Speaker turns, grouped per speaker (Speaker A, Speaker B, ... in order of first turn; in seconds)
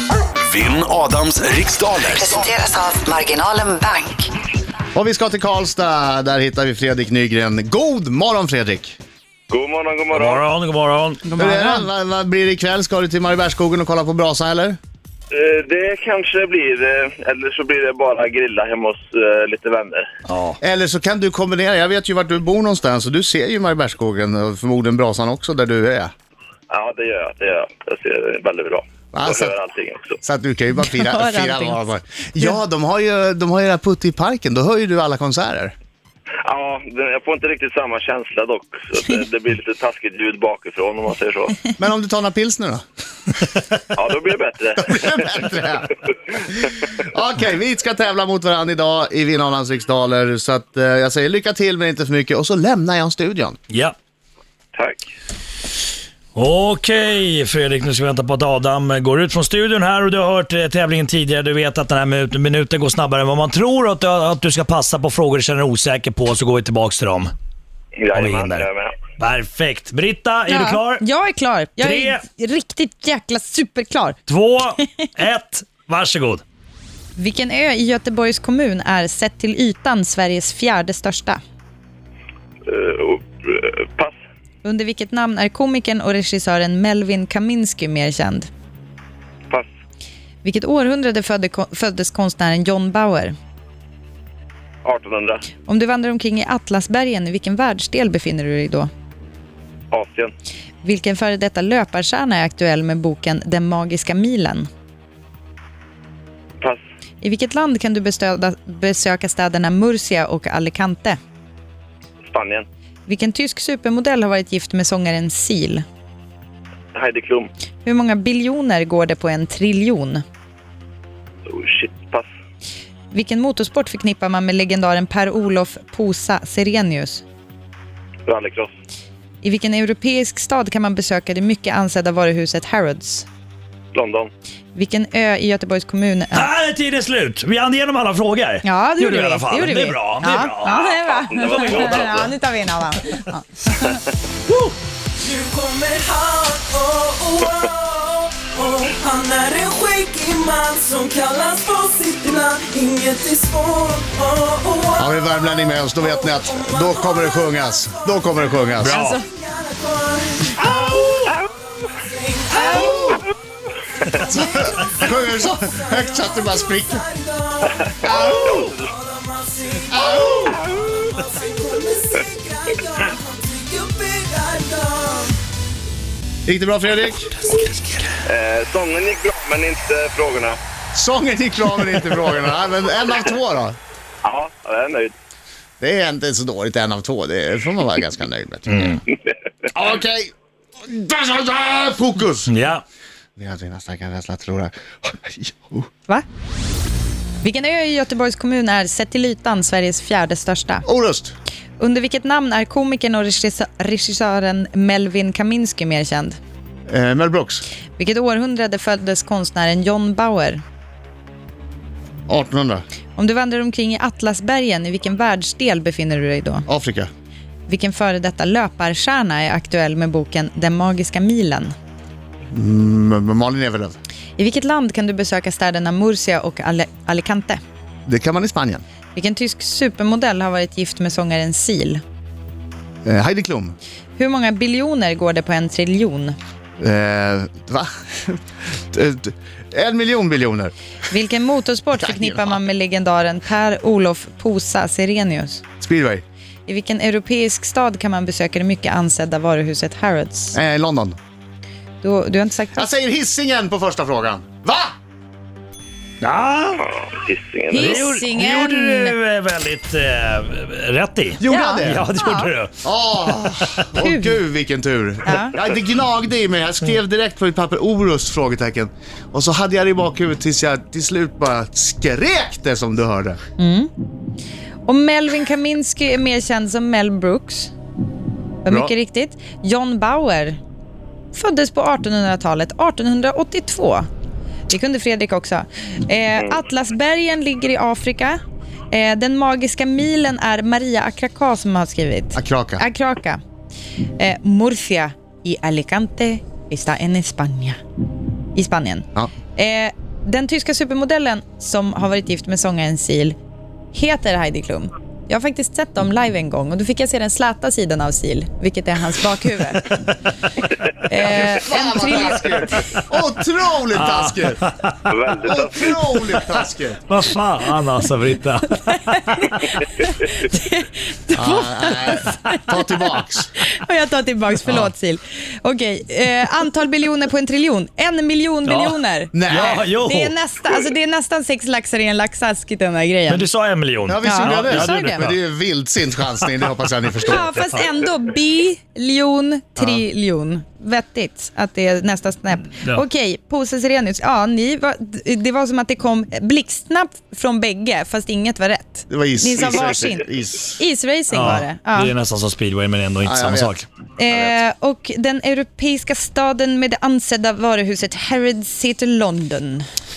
Speaker A: 0.4-2.5
Speaker B: 2.1-4.3
Speaker C: 4.9-9.0, 11.3-14.8, 20.6-26.1, 29.1-29.6, 30.2-35.7, 41.8-42.8, 44.8-45.9, 46.6-53.6, 155.0-159.0, 164.3-167.0, 168.0-168.4, 169.9-170.5, 176.4-177.3, 180.9-183.8, 185.8-188.9, 189.7-190.3, 190.8-192.5, 193.4-195.9, 200.8-201.3, 206.9-207.6, 212.3-212.8, 216.7-217.1, 222.5-224.0, 228.1-228.8, 233.0-233.8, 236.8-238.4, 238.9-240.7, 242.0-242.6, 245.8-246.2, 250.5-251.2, 252.7-254.9, 261.4-262.0, 262.8-273.4, 292.3-292.8, 311.2-314.6, 315.4-317.0, 321.3-323.5, 329.3-329.8, 334.1-337.5, 339.8-340.0, 349.1-350.8, 353.2-353.8
Speaker D: 9.5-10.4, 15.3-20.0, 26.7-30.2, 36.5-41.6, 43.9-45.1, 54.7-55.0, 68.0-69.0, 82.7-84.1, 94.8-95.4, 99.9-100.3, 112.3-112.7, 116.9-117.5, 121.5-122.2, 128.3-128.7, 133.9-134.3, 141.0-142.3, 167.8-168.9, 178.2-180.6, 184.2-185.1, 256.8-258.1, 315.1-316.1
Speaker E: 10.1-11.3, 20.3-20.6, 56.3-67.3, 68.1-68.7, 69.2-71.0, 71.8-72.2, 74.3-76.4, 136.3-140.8, 158.8-159.2, 177.5-178.1, 188.7-189.0, 192.5-192.8, 256.2-256.8, 257.7-262.8, 263.4-263.8, 313.9-315.0, 317.1-319.7, 328.6-330.3, 333.3-335.3, 351.3-353.8
Speaker F: 11.2-11.9, 30.7-31.8, 70.5-74.2, 77.2-81.4, 84.6-88.5, 90.4-93.3, 95.7-98.9, 100.8-104.7, 107.2-111.2, 113.1-115.8, 117.8-120.2, 123.1-127.2, 129.4-133.3, 134.7-136.5, 138.6-144.0, 197.4-200.8, 201.8-206.4, 208.0-210.6, 213.2-216.7, 217.7-221.7, 224.4-227.6, 229.1-232.0, 234.2-236.3, 241.1-245.6, 246.7-250.6, 252.0-252.9, 257.7-259.1, 261.5-262.5, 264.0-264.4, 265.2-265.5, 273.6-273.9, 274.9-277.7, 278.6-280.6, 281.3-284.1, 284.7-288.4, 288.9-293.4, 294.2-297.8, 298.5-303.4, 303.9-310.1, 311.1-312.7, 318.9-322.6, 323.6-333.4, 334.2-335.2, 337.2-352.1, 354.2-359.8
Speaker G: 145.2-155.2, 156.0-163.3, 164.0-175.4